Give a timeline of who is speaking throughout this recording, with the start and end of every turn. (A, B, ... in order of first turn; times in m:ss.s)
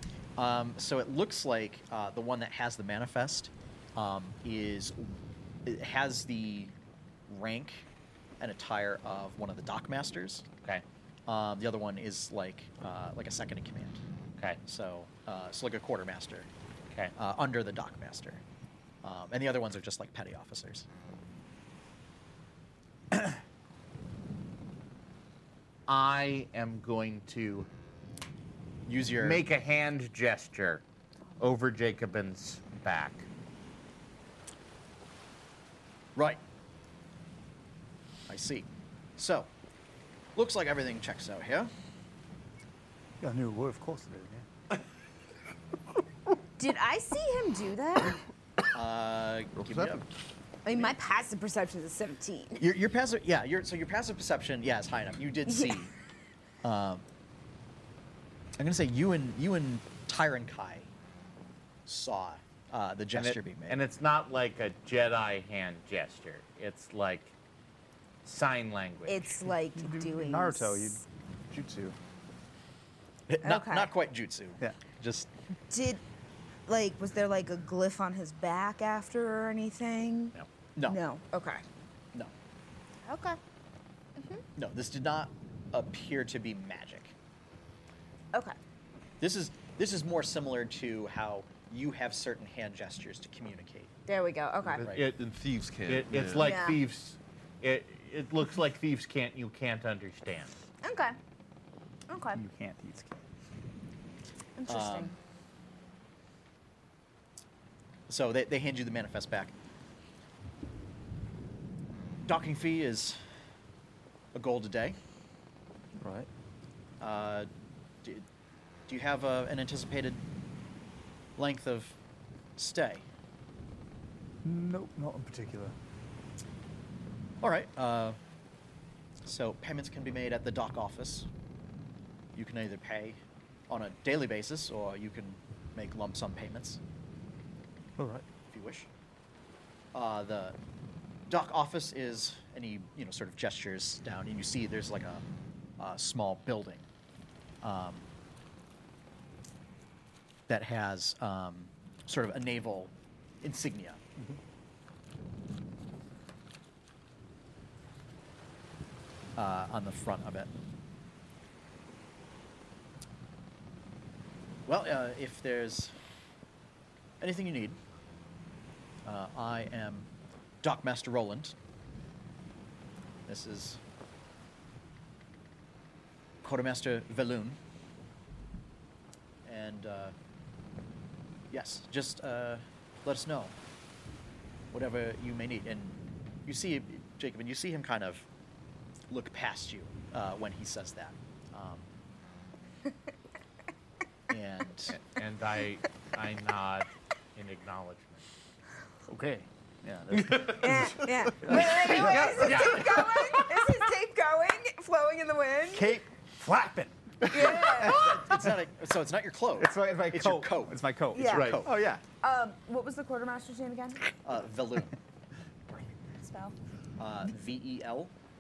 0:00.4-0:06.7 A
0:07.3-0:07.9 A
0:08.4-0:10.5 A
0:11.3-0:14.0 A
0:14.6-0:16.5 A
0:17.2-0:18.4 A
0:19.0-0:20.9 A
0:25.9-0:27.7 B
0:28.9-0:29.4 A
0:29.2-0:30.8 B
0:31.4-0:33.3 B
0:36.2-0:36.4 A
0:38.3-0:39.5 A
0:40.4-0:41.7 A
0:43.2-0:44.5 C
0:46.6-0:48.2 D
0:48.7-0:50.1 A
0:49.6-0:50.0 E
0:50.6-0:52.7 D
0:52.6-0:55.9 A
0:55.5-0:55.9 D
0:56.6-0:57.0 A
0:58.6-1:00.9 A
1:01.9-1:03.8 A
1:03.1-1:07.4 B
1:08.2-1:09.4 B
1:09.1-1:11.0 D
1:09.8-1:12.0 C
1:13.3-1:15.3 A
1:13.4-1:13.9 D
1:15.7-1:16.0 D
1:16.7-1:21.6 D
1:23.0-1:23.4 D
1:24.2-1:24.4 D
1:24.6-1:27.2 A
1:29.2-1:33.9 A
1:34.1-1:34.9 D
1:34.8-1:36.5 E
1:34.8-1:35.2 B
1:35.9-1:40.6 B
1:36.4-1:36.8 D
1:40.8-1:41.2 D
1:42.1-1:42.4 D
1:42.3-1:43.2 C
1:44.6-1:45.1 D
1:44.7-1:45.1 A
1:48.1-1:49.5 A
1:52.3-1:53.2 A
1:54.3-1:55.0 A
1:56.0-1:56.3 C
1:57.0-1:57.5 A
1:58.9-2:00.2 A
2:01.4-2:02.0 A
2:02.6-2:03.0 A
2:04.4-2:05.8 C
2:07.4-2:08.2 A
2:09.2-2:11.3 A
2:12.3-2:16.8 A
2:18.0-2:18.2 C
2:18.5-2:18.9 A
2:19.9-2:20.6 A
2:21.3-2:25.2 A
2:25.8-2:26.9 A
2:27.6-2:28.1 A
2:30.5-2:34.0 A
2:39.4-2:40.5 A
2:44.7-2:46.0 A
2:47.2-2:47.8 A
2:49.0-2:50.1 A
2:50.6-2:51.6 A
2:53.3-2:53.8 A
2:56.4-2:57.6 A
2:59.4-3:00.1 A
3:01.5-3:03.6 A
3:04.7-3:08.3 A
3:09.1-3:11.9 A
3:14.3-3:15.0 A
3:14.9-3:18.2 B
3:19.1-3:22.7 C
3:20.1-3:23.4 E
3:20.6-3:26.0 D
3:22.4-3:23.0 B
3:25.8-3:28.6 C
3:27.3-3:28.0 D
3:27.4-3:31.7 A
3:29.6-3:32.0 C
3:31.1-3:31.6 D
3:31.3-3:31.6 E
3:32.2-3:34.0 D
3:34.2-3:35.0 A
3:36.2-3:36.6 D
3:37.0-3:38.1 A